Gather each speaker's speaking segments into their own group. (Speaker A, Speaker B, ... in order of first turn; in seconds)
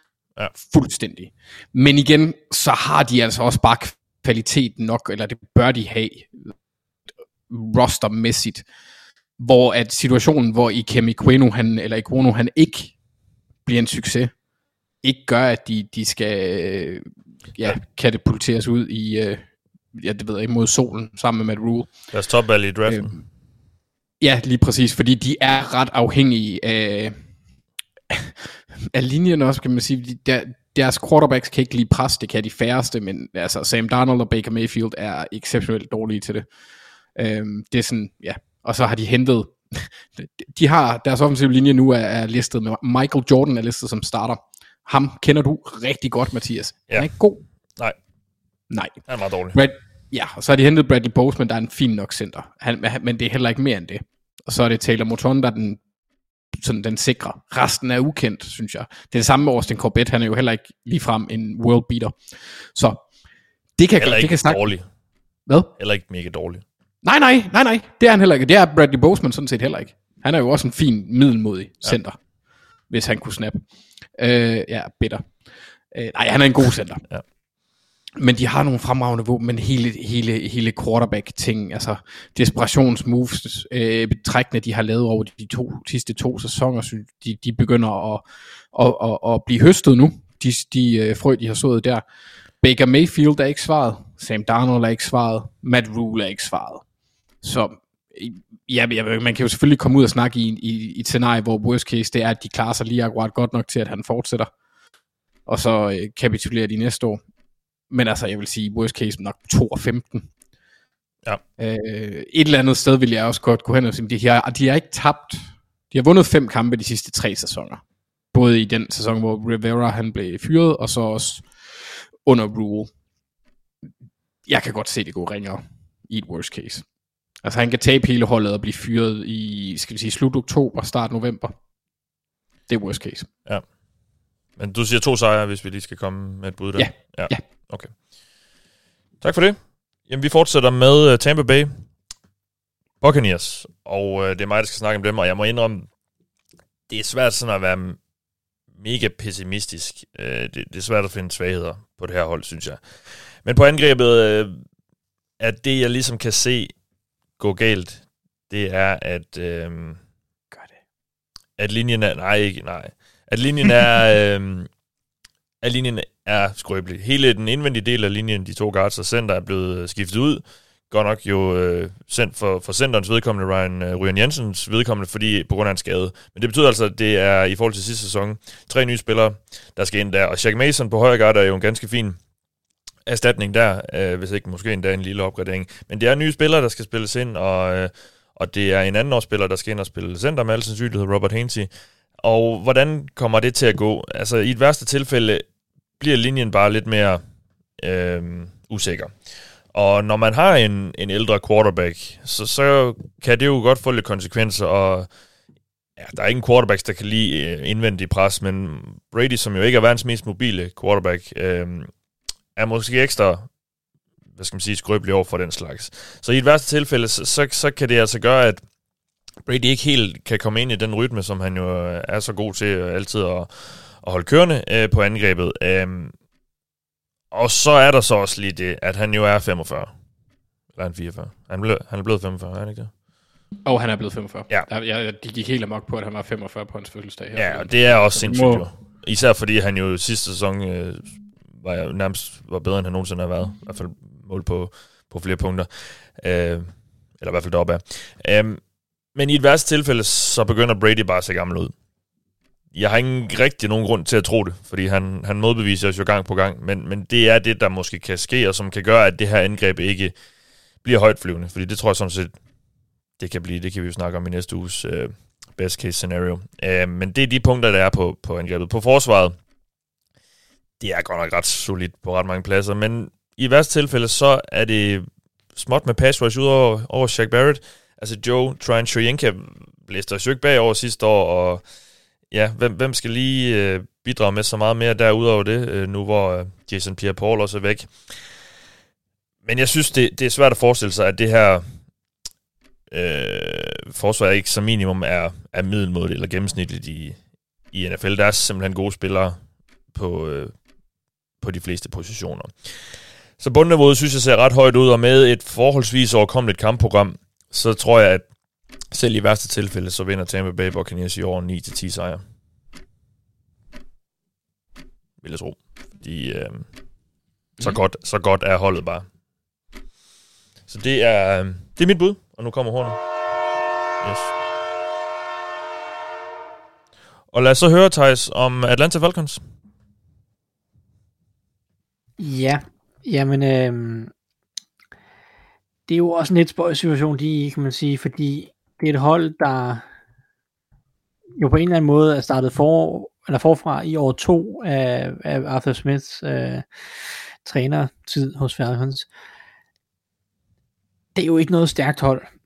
Speaker A: 0.6-6.5, 7.5-8.7, 9.4-12.9, 13.7-14.3, 15.0-21.9, 22.9-23.2, 24.2-27.2, 28.1-36.5, 37.1-47.4, 48.7-55.8, 56.5-62.2, 62.7-63.0, 63.8-64.7, 65.5-65.7, 67.0-72.2, 72.9-73.6, 74.2-75.3, 75.9-77.0, 78.2-92.0, 92.6-96.8, 97.4-104.5, 105.5-107.2, 107.9-110.3, 111.6-117.8, 118.3-121.5, 122.2-122.9, 124.5-126.8, 127.4-131.6, 132.7-133.3, 136.8-137.4, 233.7-238.7
Speaker B: 22.1-23.2, 49.1-49.6, 64.0-64.8, 65.8-66.6, 134.6-137.9, 139.2-141.7, 143.0-145.9, 146.9-148.0, 148.8-152.8, 153.4-154.6, 155.4-156.7, 157.4-160.0, 161.6-164.7, 165.6-182.2, 183.1-191.7, 192.2-195.4, 196.0-197.2, 197.8-199.1, 199.7-205.1, 206.0-211.9, 212.6-213.5, 214.4-218.6, 219.5-226.1, 227.3-229.9, 230.8-232.9, 237.3-248.6, 249.2-251.7, 252.7-260.1, 260.8-262.4, 263.2-269.4, 270.8-281.6, 282.3-288.3, 289.4-291.7, 292.9-297.2, 297.7-299.4, 299.9-300.6, 301.4-308.2, 308.9-312.2, 315.2-316.7, 317.6-319.1, 320.7-323.0, 324.0-324.4, 327.3-329.4
Speaker C: 332.2-334.1, 335.9-339.9, 341.4-346.6, 347.4-349.1, 351.1-352.3